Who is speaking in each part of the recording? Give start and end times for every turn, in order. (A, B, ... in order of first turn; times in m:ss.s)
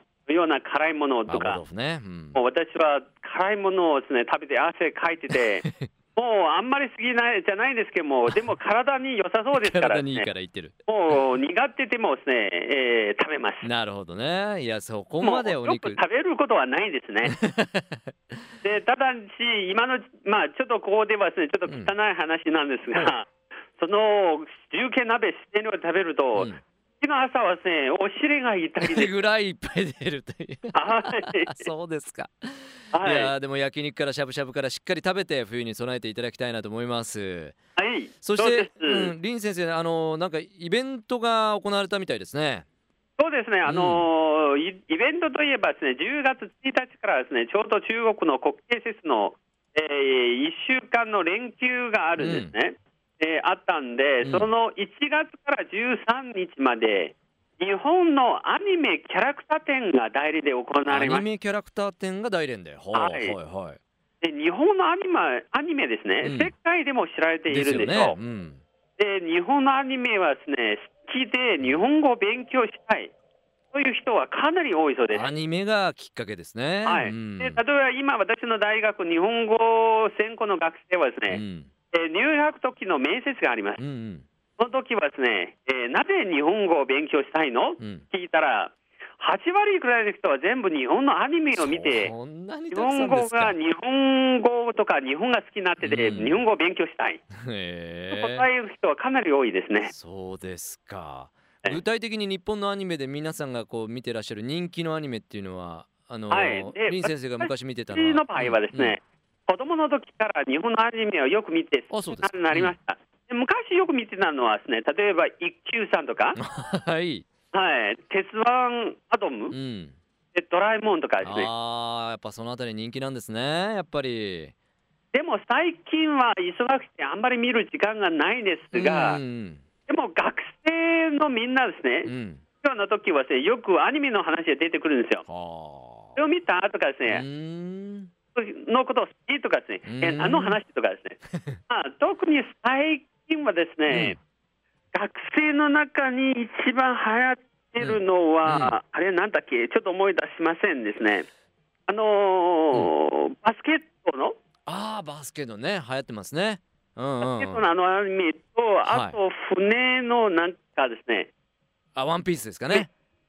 0:00.3-0:01.6 A
0:01.3-0:02.4 B
0:02.3-0:10.3 A
0:09.5-0:10.7 B
0:10.9-0:13.6 A
0:13.6-0:16.0 B
0:15.2-0:17.4 A
0:17.2-0:18.1 B
0:18.6-0:29.1 A
0:21.6-0:21.9 B
0:26.3-0:26.6 B
0:28.8-0:37.6 B
0:30.7-0:31.7 A
0:32.9-0:33.3 A
0:37.8-0:39.1 A
0:38.2-0:42.6 B
0:43.2-1:01.2 A
0:43.6-0:44.1 B
0:52.2-0:52.5 B
0:54.2-0:54.5 B
1:00.9-1:03.8 B
1:02.9-1:03.3 A
1:04.2-1:08.2 A
1:06.2-1:06.5 B
1:07.5-1:08.6 B
1:09.0-1:13.1 A
1:13.7-1:15.3 A
1:15.1-1:17.6 B
1:16.8-1:23.8 A
1:21.3-1:21.7 B
1:23.8-1:24.2 B
1:24.6-1:32.1 A
1:31.5-1:33.5 B
1:32.7-1:37.2 A
1:35.8-1:36.4 B
1:37.4-1:38.4 B
1:38.1-1:39.9 A
1:39.8-1:49.0 B
1:46.3-1:56.4 A
1:51.9-1:52.8 B
1:56.4-1:57.2 B
1:57.5-1:59.5 A
1:59.5-2:00.0 B
2:00.3-2:01.5 A
2:01.2-2:04.5 B
2:05.1-2:09.2 A
2:08.7-2:09.6 B
2:09.9-2:15.2 A
2:12.0-2:12.4 B
2:15.3-2:16.2 B
2:16.1-2:17.2 A
2:17.1-2:18.1 B
2:18.3-2:24.2 A
2:19.8-2:20.6 B
2:23.9-2:24.2 B
2:24.9-2:31.3 A
2:27.8-2:28.8 B
2:31.9-2:34.4 A
2:34.7-2:37.6 B
2:37.2-2:41.3 A
2:38.8-2:39.2 B
2:42.0-2:42.9 B